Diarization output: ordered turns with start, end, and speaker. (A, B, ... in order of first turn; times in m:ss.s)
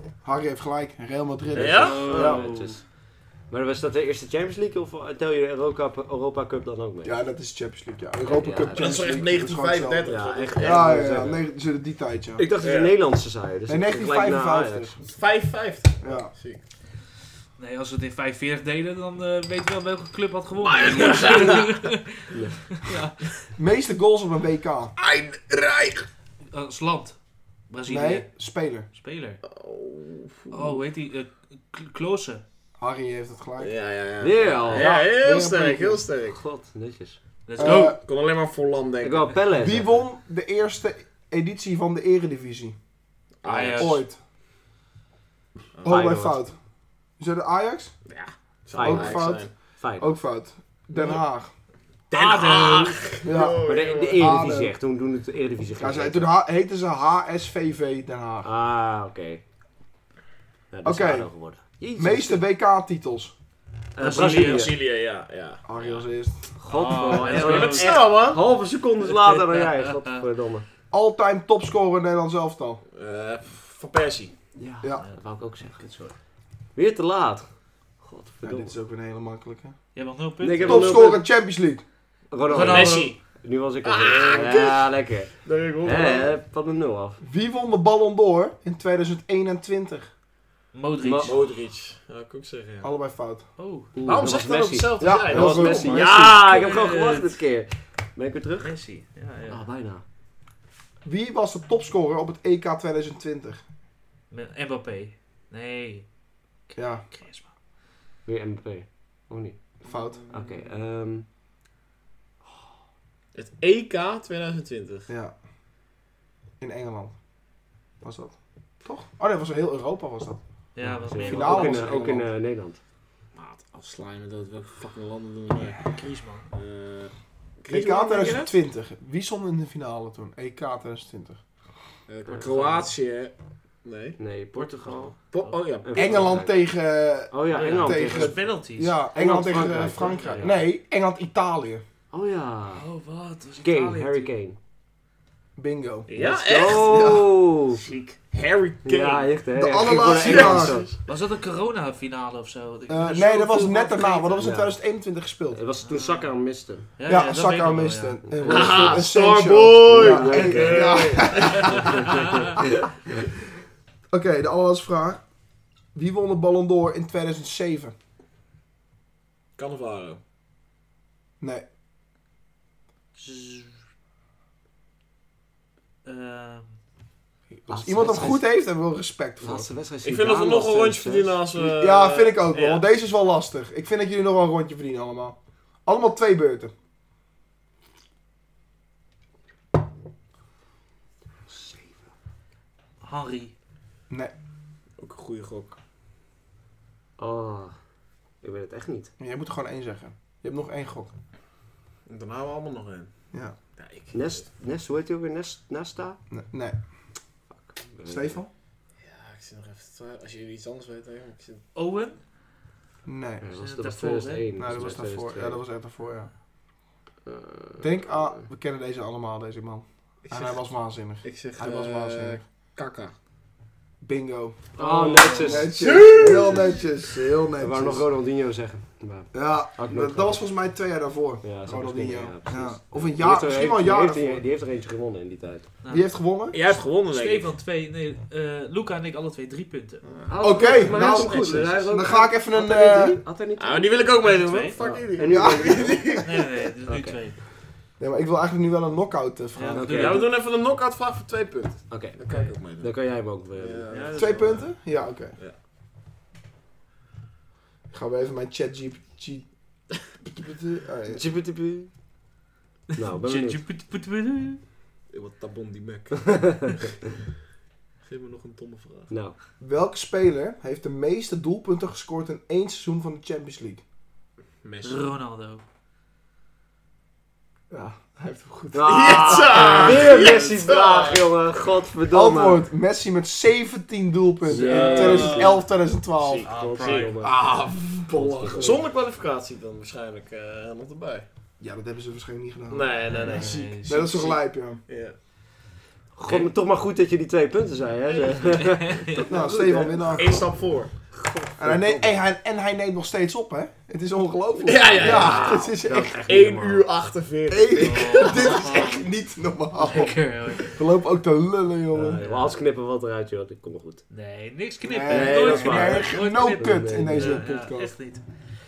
0:00.2-0:02.4 A
0:01.5-0:02.4 B
0:01.6-0:02.8 C
0:02.0-0:02.8 D
0:03.5-0:07.1 D
0:07.0-0:12.5 A
0:08.2-0:09.0 D
0:08.7-0:11.3 B
0:10.1-0:11.4 D
0:12.4-0:15.0 D
0:12.6-0:13.0 B
0:13.7-0:15.0 A
0:15.0-0:16.6 B
0:16.0-0:16.3 A
0:17.6-0:23.2 C
0:20.6-0:21.8 B
0:22.3-0:22.9 D
0:23.6-0:25.0 A
0:25.0-0:26.1 B
0:26.5-0:27.2 C
0:27.7-0:28.3 C
0:27.9-0:28.9 A
0:28.9-0:29.4 C
0:29.4-0:30.8 B
0:30.5-0:32.4 C
0:32.8-0:33.7 A
0:33.6-0:36.4 B
0:34.2-0:35.2 D
0:34.8-0:36.0 A
0:36.3-0:37.2 D
0:37.5-0:38.0 C
0:37.6-0:38.0 A
0:37.6-0:39.4 B
0:39.0-0:40.0 D
0:39.5-0:42.8 A
0:43.4-0:44.0 B
0:43.4-0:44.0 C
0:43.8-0:44.2 A
0:45.8-0:46.0 B
0:45.8-0:46.5 A
0:45.9-0:46.4 D
0:47.2-0:47.9 A
0:48.1-0:49.5 B
0:48.7-0:50.1 D
0:48.8-0:51.5 A
0:52.1-0:53.0 C
0:52.1-0:54.4 B
0:53.2-0:54.8 A
0:53.6-0:56.3 D
0:55.8-0:58.5 A
0:58.4-0:59.4 D
1:00.7-1:02.4 D
1:00.8-1:01.3 A
1:02.0-1:03.3 A
1:04.0-1:04.7 D
1:04.0-1:04.7 C
1:04.0-1:06.1 B
1:05.7-1:07.4 A
1:06.6-1:10.7 D
1:06.6-1:08.0 C
1:07.2-1:08.5 B
1:09.0-1:10.3 C
1:10.9-1:12.8 A
1:12.9-1:14.3 B
1:14.6-1:15.8 D
1:15.8-1:16.1 C
1:16.8-1:17.5 D
1:18.0-1:18.8 D
1:18.4-1:19.7 A
1:20.0-1:21.0 C
1:20.4-1:21.2 D
1:20.6-1:21.8 A
1:22.3-1:27.2 D
1:22.5-1:23.2 C
1:22.6-1:23.2 B
1:23.8-1:26.4 B
1:27.2-1:30.1 A
1:30.7-1:31.4 C
1:31.0-1:31.4 D
1:31.2-1:32.9 B
1:32.8-1:33.4 A
1:33.6-1:33.9 C
1:34.0-1:38.8 D
1:34.0-1:36.0 B
1:35.0-1:36.4 A
1:36.4-1:37.3 C
1:38.6-1:39.6 C
1:39.5-1:40.0 D
1:41.0-1:43.6 A
1:44.3-1:46.1 C
1:46.7-1:47.5 C
1:46.8-1:47.0 A
1:48.3-1:49.8 D
1:49.8-1:50.2 A
1:49.9-1:50.6 B
1:50.3-1:51.3 D
1:53.3-1:55.1 B
1:55.1-1:55.3 A
1:56.6-1:57.2 A
1:58.0-2:00.4 A
2:00.8-2:02.0 C
2:00.8-2:02.8 D
2:01.1-2:02.3 A
2:03.4-2:05.9 B
2:05.9-2:06.5 C
2:06.5-2:08.6 B
2:07.7-2:11.4 A
2:12.1-2:14.2 B
2:12.3-2:12.8 D
2:14.2-2:15.2 D
2:14.6-2:15.6 C
2:15.3-2:16.4 B
2:15.8-2:16.6 D
2:16.0-2:21.8 A
2:17.3-2:18.4 D
2:17.5-2:20.6 C
2:19.1-2:20.6 D
2:22.1-2:22.8 D
2:22.8-2:24.4 C
2:23.6-2:24.6 D
2:25.6-2:26.1 A
2:26.1-2:31.0 B
2:26.2-2:27.8 D
2:26.7-2:27.3 A
2:28.8-2:30.9 D
2:29.6-2:30.8 A
2:31.1-2:34.5 C
2:32.9-2:35.6 A
2:34.4-2:34.8 D
2:35.5-2:36.9 D
2:35.8-2:36.3 C
2:37.0-2:38.2 C
2:37.0-2:42.1 A
2:38.3-2:39.1 D
2:38.4-2:42.1 B
2:39.9-2:41.2 D
2:41.3-2:42.5 C
2:41.8-2:42.1 D
2:44.1-2:45.2 A
2:46.0-2:47.9 A
2:49.6-2:50.2 B
2:53.2-2:53.8 C
2:56.0-2:56.8 C
2:57.7-2:59.7 A
2:57.7-2:58.5 D
2:59.4-3:01.4 D
3:00.0-3:02.8 B
3:01.6-3:06.7 A
3:11.5-3:11.8 D
3:13.0-3:13.5 C
3:15.0-3:15.8 B
3:17.2-3:17.8 D
3:18.4-3:19.1 D
3:19.2-3:21.1 A
3:22.1-3:23.1 B
3:23.8-3:24.5 B
3:24.1-3:26.2 D
3:26.3-3:26.8 A
3:27.5-3:28.4 D
3:28.1-3:28.5 A
3:29.0-3:31.6 B
3:31.8-3:32.2 C
3:33.1-3:33.5 A
3:33.4-3:35.6 D
3:33.6-3:34.5 C
3:34.6-3:36.3 A
3:37.2-3:37.9 D
3:37.8-3:42.4 A
3:40.2-3:40.6 B
3:41.2-3:43.1 B
3:44.0-3:48.1 A
3:44.8-3:46.8 D
3:44.8-3:46.8 B
3:47.6-3:50.5 D
3:49.3-3:54.4 A
3:51.4-3:55.7 D
3:55.8-3:56.1 C
3:55.9-3:56.6 A
3:56.5-3:57.5 B
3:57.1-4:00.0 C
4:00.0-4:01.8 B
4:00.3-4:04.0 D
4:00.4-4:03.2 A
4:03.6-4:06.2 B
4:04.2-4:04.8 C
4:04.8-4:06.2 D
4:05.2-4:06.2 A
4:06.2-4:07.4 C
4:06.9-4:07.2 D
4:08.0-4:10.2 A
4:09.6-4:10.3 C
4:09.7-4:10.3 D
4:09.9-4:13.0 B
4:11.9-4:13.9 D
4:13.5-4:14.6 B
4:13.9-4:14.6 C
4:14.2-4:15.4 A
4:17.9-4:19.5 A
4:20.2-4:21.2 A
4:21.1-4:21.9 D
4:23.0-4:24.6 C
4:23.0-4:23.6 D
4:25.1-4:26.9 B
4:26.4-4:26.7 D
4:28.1-4:29.1 B
4:29.6-4:33.8 A
4:34.6-4:35.1 B
4:34.8-4:35.6 C
4:37.7-4:40.2 A
4:38.7-4:42.6 D
4:38.8-4:41.3 B
4:42.1-4:46.5 A
4:44.5-4:45.6 D
4:44.5-4:45.4 B
4:44.6-4:45.5 C
4:46.2-4:47.4 B
4:46.4-4:47.4 D
4:46.5-4:47.2 C
4:47.2-4:48.8 A
4:48.1-4:48.8 D
4:48.6-4:51.3 B
4:51.6-4:54.8 A
4:52.7-4:53.8 B
4:53.1-4:54.4 C
4:54.9-4:55.2 B
4:56.2-5:00.4 D
4:58.1-4:58.5 B
4:58.5-4:59.3 C
4:59.2-5:00.4 A
5:00.1-5:00.9 B
5:01.1-5:02.2 D
5:01.6-5:06.4 A
5:04.6-5:08.7 B
5:04.8-5:06.9 D
5:07.5-5:12.2 A
5:07.8-5:09.0 C
5:09.8-5:10.8 C
5:11.9-5:14.0 D
5:12.2-5:12.6 C
5:14.1-5:18.2 C
5:14.8-5:17.9 A
5:15.1-5:17.4 D